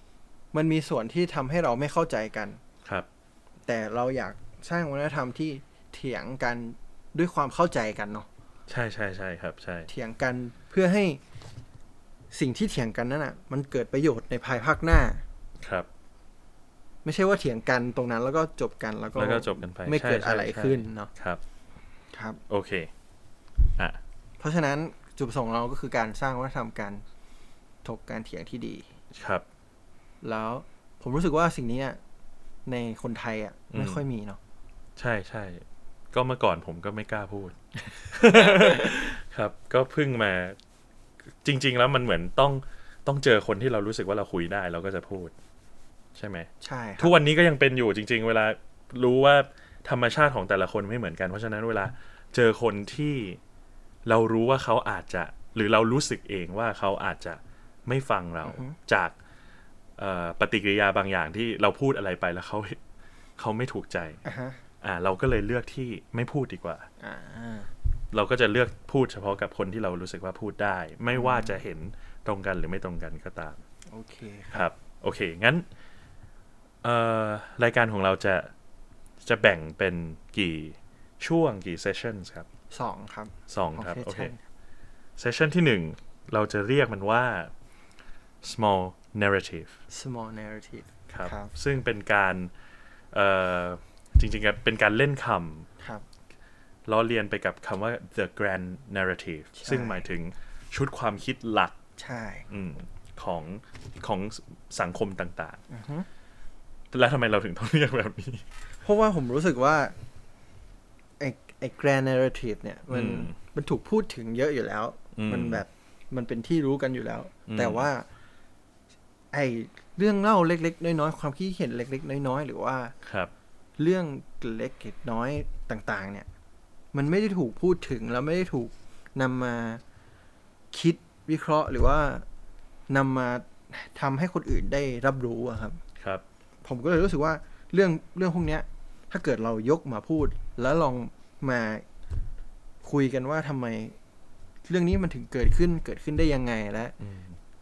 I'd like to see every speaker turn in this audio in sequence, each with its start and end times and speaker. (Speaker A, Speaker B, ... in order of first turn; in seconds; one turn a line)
Speaker A: 0.5-2.6
Speaker A: 3.7-8.3
Speaker B: 8.7-9.9
Speaker A: 9.9-11.2
Speaker A: 12.3-15.2
Speaker B: 15.6-15.9
Speaker A: 17.0-21.1
Speaker B: 19.2-21.4
Speaker A: 22.1-22.4
Speaker B: 22.5-22.9
Speaker A: 24.4-27.0
Speaker A: 27.8-28.9
Speaker B: 29.1-29.4
Speaker A: 30.2-32.0
Speaker A: 32.7-34.4
Speaker B: 33.7-34.0
Speaker B: 35.0-40.6
Speaker A: 38.4-38.7
Speaker B: 41.4-45.3
Speaker B: 46.1-53.4
Speaker A: 46.6-47.2
Speaker B: 54.0-59.2
Speaker A: 58.5-58.8
Speaker B: 60.0-62.8
Speaker B: 63.4-64.2
Speaker A: 64.2-64.6
Speaker B: 64.8-66.9
Speaker A: 67.0-67.7
Speaker B: 68.1-73.6
Speaker A: 71.1-71.6
Speaker A: 73.9-74.7
Speaker B: 74.5-75.7
Speaker B: 76.8-78.5
Speaker B: 79.2-82.5
Speaker A: 82.7-84.4
Speaker B: 83.5-84.3
Speaker B: 85.2-87.5
Speaker B: 88.4-89.7
Speaker A: 89.9-91.5
Speaker B: 91.1-92.5
Speaker B: 93.1-95.7
Speaker B: 96.9-101.8
Speaker A: 99.6-100.0
Speaker A: 102.0-102.5
Speaker B: 102.5-105.6
Speaker A: 105.7-106.1
Speaker B: 106.9-108.4
Speaker A: 108.8-110.0
Speaker A: 111.2-118.1
Speaker B: 112.9-113.3
Speaker B: 115.2-115.6
Speaker B: 117.5-117.8
Speaker A: 119.3-122.9
Speaker B: 123.0-123.3
Speaker A: 123.8-126.3
Speaker A: 126.9-129.8
Speaker A: 130.7-132.2
Speaker A: 132.9-135.8
Speaker A: 136.6-141.8
Speaker A: 142.8-144.0
Speaker A: 144.7-146.9
Speaker B: 147.0-147.4